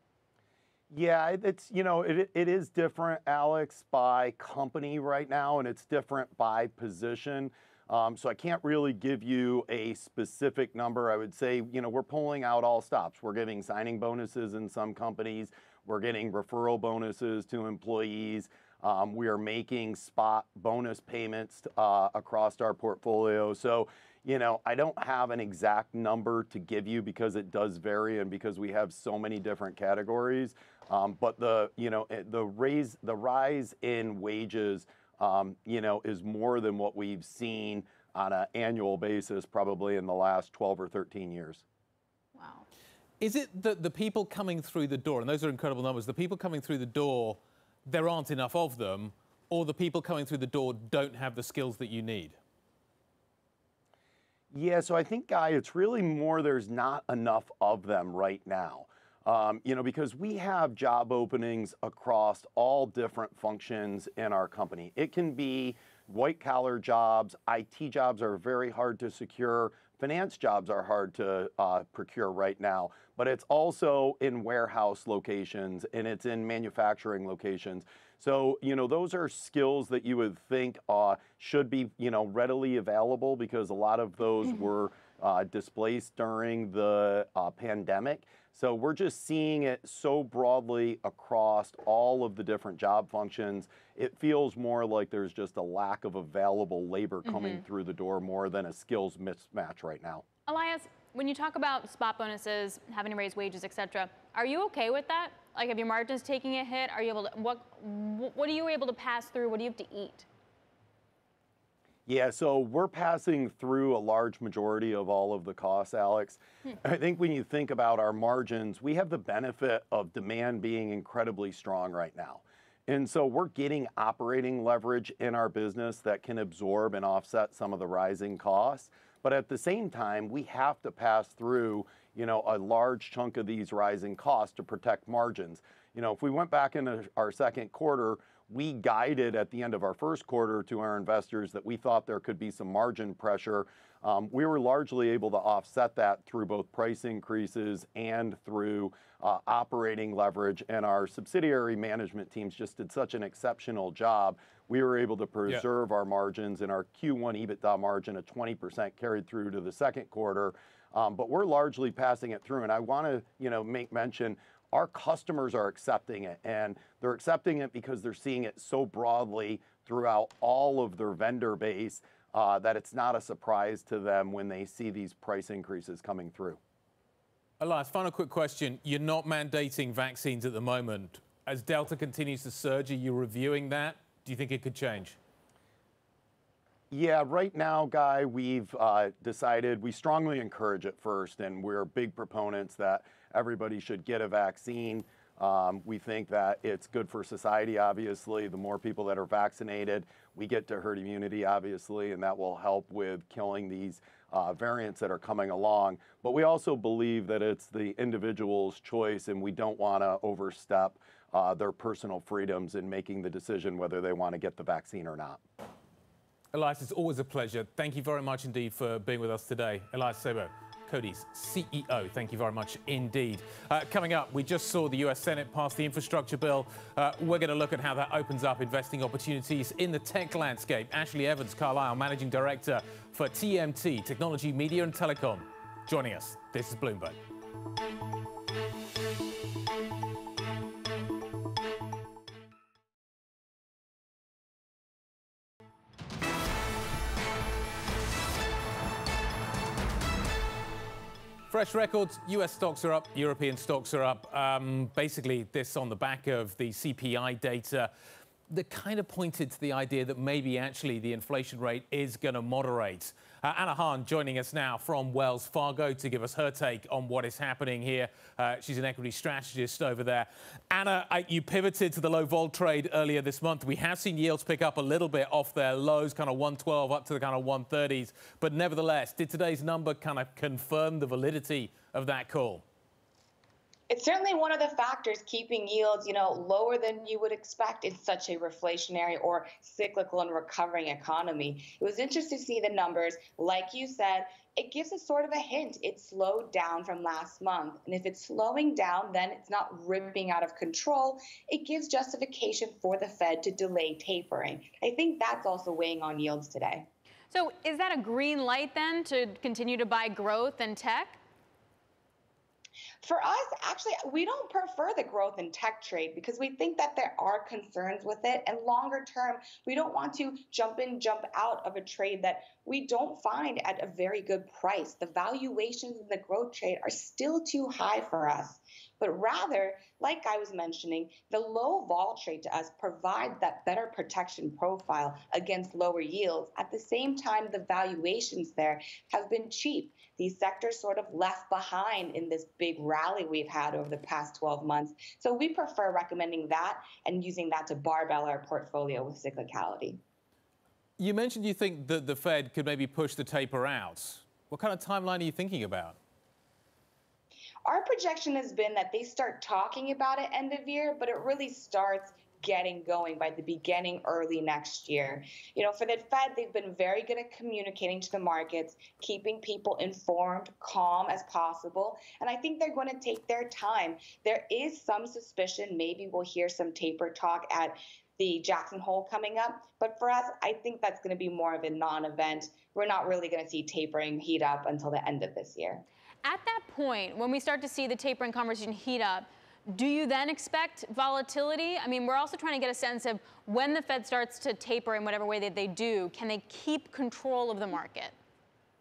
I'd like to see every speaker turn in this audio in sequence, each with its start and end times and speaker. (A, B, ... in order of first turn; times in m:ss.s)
0:00.9-0:41.6 A
0:42.4-0:42.6 B
0:43.2-0:52.4 C
0:54.5-1:40.2 A
1:37.3-1:37.6 B
1:40.5-1:50.2 B
1:52.0-2:56.6 A
2:57.6-3:05.2 C
3:06.9-3:35.4 A
3:36.5-3:57.2 C
4:11.5-4:17.9 C
4:18.5-4:42.6 C
4:43.9-5:06.9 D
5:07.3-5:11.2 B
5:13.0-5:50.0 D
5:51.0-5:56.0 C
5:57.6-6:25.8 D
6:26.2-6:38.1 B